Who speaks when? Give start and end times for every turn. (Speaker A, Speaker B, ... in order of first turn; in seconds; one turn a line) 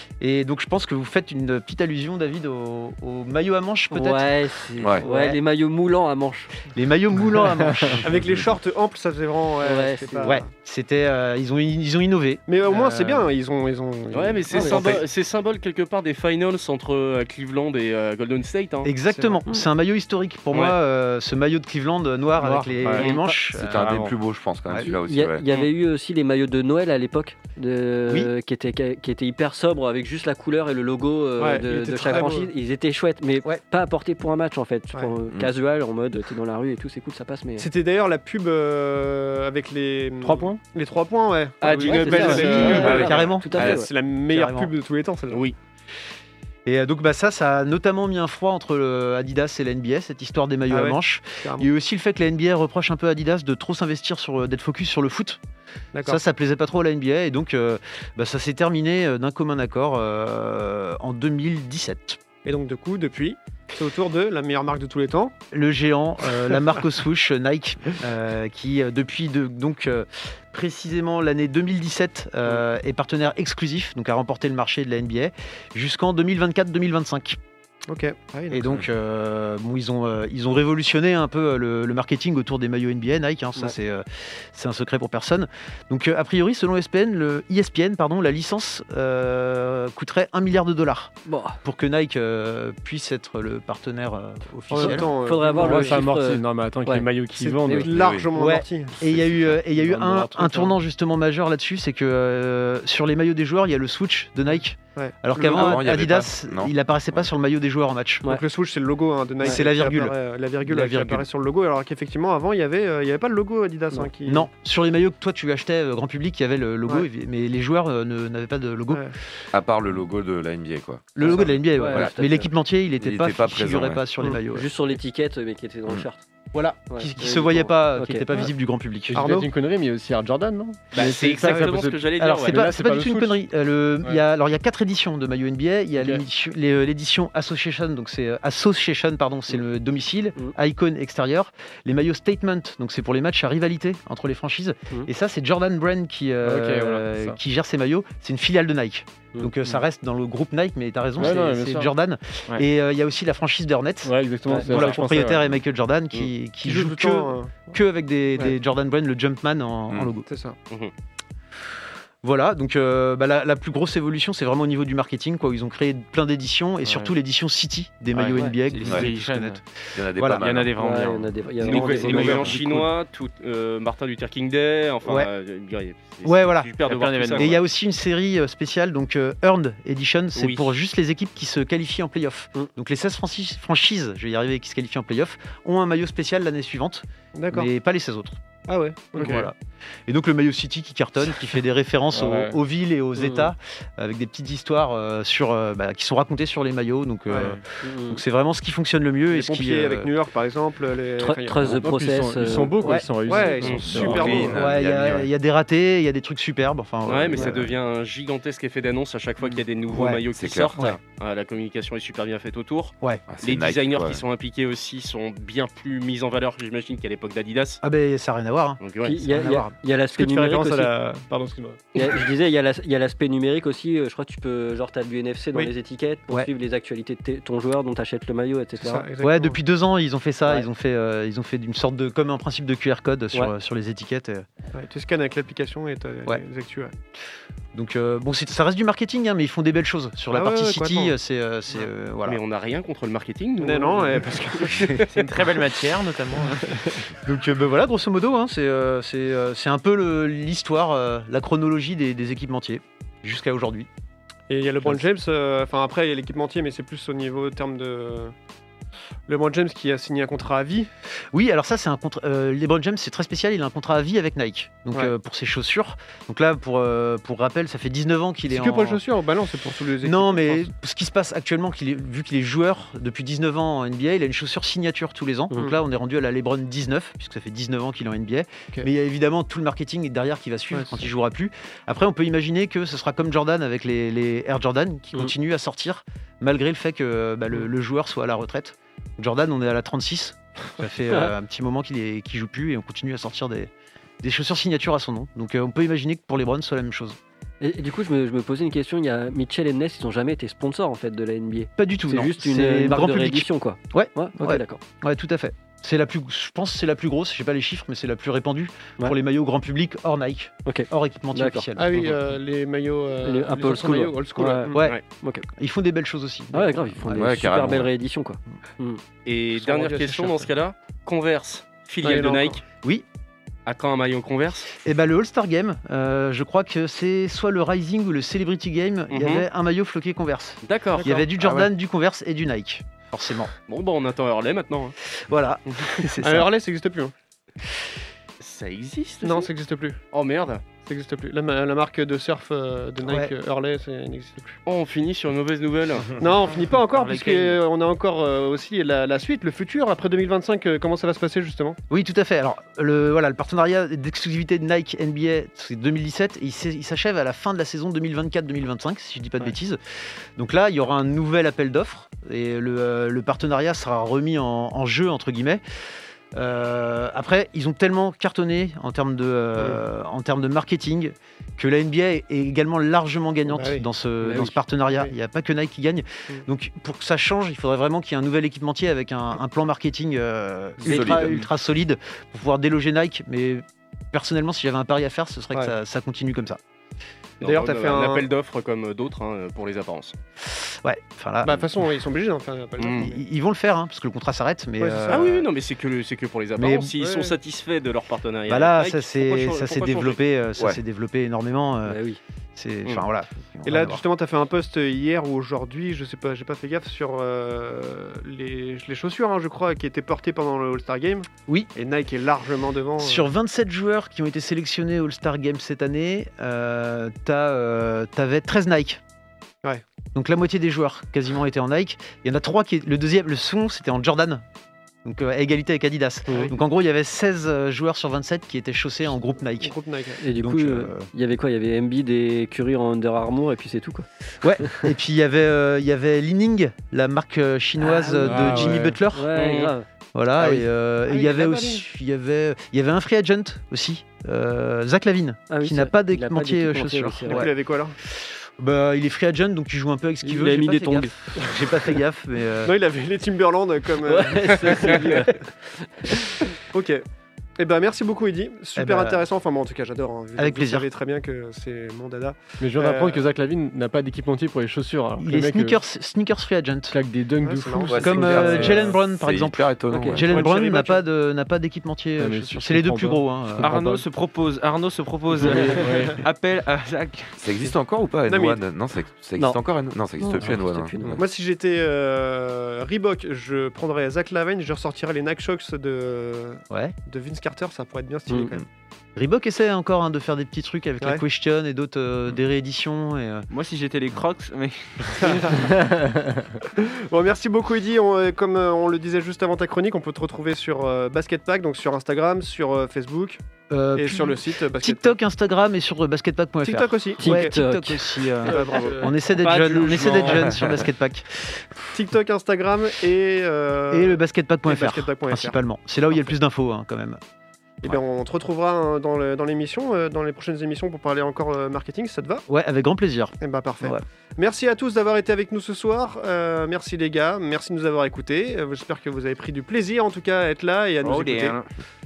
Speaker A: 0.2-5.4
Speaker B: 3.9-6.5
Speaker C: 4.8-5.0
Speaker A: 6.6-8.1
Speaker D: 8.0-10.4
Speaker B: 9.6-10.4
Speaker A: 10.2-13.3
Speaker D: 12.5-15.0
Speaker E: 14.1-18.9
Speaker B: 14.5-15.0
Speaker A: 14.7-15.0
Speaker C: 14.7-15.0
Speaker A: 18.8-24.1
Speaker D: 19.1-19.4
Speaker E: 20.5-20.8
Speaker F: 22.5-23.1
Speaker B: 23.0-23.4
Speaker C: 23.5-25.5
Speaker B: 24.8-37.7
Speaker D: 31.4-32.5
Speaker D: 37.6-45.5
Speaker F: 40.2-40.6
Speaker E: 41.6-43.2
Speaker B: 41.8-43.9
Speaker A: 41.9-44.7
Speaker C: 42.9-43.8
Speaker E: 45.3-45.6
Speaker A: 46.7-55.4
Speaker D: 50.7-51.7
Speaker D: 55.9-56.2
Speaker A: 56.0-62.2
Speaker D: 62.5-65.3
Speaker A: 65.5-77.4
Speaker D: 77.9-78.8
Speaker A: 78.5-95.1
Speaker B: 91.3-91.6
Speaker D: 94.7-96.1
Speaker B: 94.8-97.1
Speaker F: 95.4-97.9
Speaker D: 97.4-99.0
Speaker B: 97.6-97.9
Speaker C: 97.7-98.3
Speaker A: 98.4-108.2
Speaker C: 99.0-99.6
Speaker F: 99.8-100.7
Speaker D: 105.0-105.8
Speaker C: 105.5-107.3
Speaker D: 108.2-114.5
Speaker A: 109.5-111.3
Speaker A: 114.3-119.1
Speaker C: 119.5-122.3
Speaker A: 121.1-124.7
Speaker B: 121.2-122.5
Speaker C: 123.0-124.1
Speaker B: 124.5-126.2
Speaker A: 126.5-129.3
Speaker B: 126.9-128.5
Speaker F: 129.1-133.4
Speaker D: 129.2-129.5
Speaker E: 130.9-132.7
Speaker A: 132.1-160.3
Speaker F: 146.4-147.4
Speaker F: 151.2-151.9
Speaker F: 154.0-155.5
Speaker D: 156.7-157.8
Speaker C: 159.9-160.2
Speaker D: 160.3-160.6
Speaker A: 162.2-169.6
Speaker G: 166.8-167.1
Speaker G: 168.1-169.6
Speaker C: 168.8-169.2
Speaker C: 169.9-170.7
Speaker A: 170.2-170.4
Speaker G: 170.2-172.8
Speaker B: 170.8-172.6
Speaker E: 171.6-177.6
Speaker C: 172.3-172.6
Speaker A: 175.1-175.3
Speaker A: 176.2-176.8
Speaker G: 176.9-177.6
Speaker A: 177.3-188.4
Speaker E: 180.3-180.8
Speaker D: 187.3-187.7
Speaker D: 188.7-189.5
Speaker A: 189.2-189.6
Speaker A: 190.1-200.1
Speaker F: 192.2-192.6
Speaker B: 193.2-193.5
Speaker B: 197.8-198.2
Speaker D: 199.3-201.9
Speaker B: 201.2-202.9
Speaker F: 201.7-204.6
Speaker A: 202.8-203.1
Speaker D: 203.3-204.6
Speaker E: 203.5-204.1
Speaker C: 203.9-205.3
Speaker A: 204.1-207.6
Speaker E: 207.1-217.8
Speaker C: 207.4-207.8
Speaker A: 209.9-211.0
Speaker C: 210.3-210.8
Speaker A: 213.0-213.2
Speaker C: 213.3-214.2
Speaker A: 217.8-219.7
Speaker E: 218.8-219.2
Speaker B: 219.0-220.9
Speaker D: 220.1-221.8
Speaker B: 222.0-229.1
Speaker D: 228.8-229.6
Speaker A: 229.2-234.5
Speaker D: 234.7-236.9
Speaker A: 237.7-242.4
Speaker D: 240.3-241.2
Speaker E: 242.3-245.2
Speaker D: 243.6-245.0
Speaker G: 245.1-246.8
Speaker A: 247.2-253.9
Speaker D: 254.5-258.3
Speaker D: 259.3-260.9
Speaker A: 261.3-269.0
Speaker D: 268.5-270.6
Speaker A: 270.0-293.7
Speaker D: 280.7-281.1
Speaker A: 294.2-297.2
Speaker B: 297.6-304.8
Speaker A: 301.8-312.1
Speaker B: 310.7-311.7
Speaker D: 311.8-314.9
Speaker B: 313.2-315.5
Speaker A: 314.7-315.0
Speaker A: 315.6-317.3
Speaker B: 316.5-319.0
Speaker C: 317.1-317.9
Speaker E: 319.2-322.6
Speaker D: 319.6-320.5
Speaker D: 322.0-322.6
Speaker E: 323.7-324.7
Speaker A: 324.8-333.5
Speaker E: 329.1-329.5
Speaker E: 330.6-331.1
Speaker G: 331.4-331.7
Speaker E: 333.7-334.9
Speaker A: 335.3-336.5
Speaker D: 336.2-337.1
Speaker E: 338.4-339.5
Speaker D: 339.2-340.0
Speaker E: 340.1-340.7
Speaker D: 340.8-344.6
Speaker A: 343.0-343.3
Speaker E: 344.7-346.1
Speaker D: 346.2-351.8
Speaker G: 346.9-347.6
Speaker A: 351.9-359.8
Speaker A: 360.4-365.6
Speaker A: 366.3-386.6
Speaker D: 373.5-373.9
Speaker B: 374.2-374.6
Speaker C: 380.8-381.5
Speaker B: 380.9-381.4
Speaker E: 387.4-390.2
Speaker D: 387.4-388.3
Speaker A: 390.5-391.8
Speaker D: 391.4-393.2
Speaker E: 392.8-393.1
Speaker A: 392.9-395.4
Speaker D: 394.8-395.5
Speaker E: 395.1-400.2
Speaker A: 396.6-397.0
Speaker D: 397.0-397.4
Speaker A: 398.5-402.0
Speaker B: 401.9-402.2
Speaker A: 402.6-404.0
Speaker D: 403.7-413.3
Speaker A: 413.0-419.0
Speaker A: 420.1-424.4
Speaker A: 425.1-429.7
Speaker D: 426.3-426.6
Speaker D: 429.6-430.2
Speaker B: 430.2-434.1
Speaker A: 430.3-431.1
Speaker A: 434.4-439.4
Speaker B: 437.8-439.9
Speaker F: 438.3-439.0
Speaker E: 439.3-439.7
Speaker A: 440.1-447.6
Speaker D: 441.1-441.8
Speaker B: 445.5-447.5
Speaker D: 447.3-447.9
Speaker A: 448.2-452.7
Speaker B: 450.2-451.1
Speaker D: 452.6-455.2
Speaker B: 454.1-456.1
Speaker D: 456.7-457.1
Speaker D: 457.6-463.2
Speaker A: 458.8-459.2
Speaker A: 460.4-460.9
Speaker F: 462.6-465.8
Speaker A: 465.2-467.0
Speaker F: 466.9-469.0
Speaker D: 467.4-468.5
Speaker C: 467.9-470.3
Speaker A: 467.9-473.8
Speaker B: 469.9-470.2
Speaker F: 470.3-470.6
Speaker D: 470.3-471.0
Speaker F: 472.2-474.0
Speaker G: 473.6-477.4
Speaker F: 475.4-476.2
Speaker C: 477.4-481.2
Speaker D: 478.3-478.6
Speaker B: 480.2-481.2
Speaker D: 481.2-488.7
Speaker A: 486.7-486.9
Speaker A: 489.2-493.5
Speaker G: 493.5-495.6
Speaker D: 495.2-495.8
Speaker F: 495.7-496.3
Speaker D: 496.8-503.4
Speaker A: 503.7-511.7
Speaker D: 503.9-505.1
Speaker D: 506.6-507.6
Speaker B: 507.2-508.6
Speaker D: 508.4-509.1
Speaker E: 509.5-510.6
Speaker D: 511.9-515.6
Speaker A: 513.9-517.2
Speaker D: 517.8-522.5
Speaker A: 522.5-524.0
Speaker D: 523.4-531.6
Speaker G: 531.0-531.7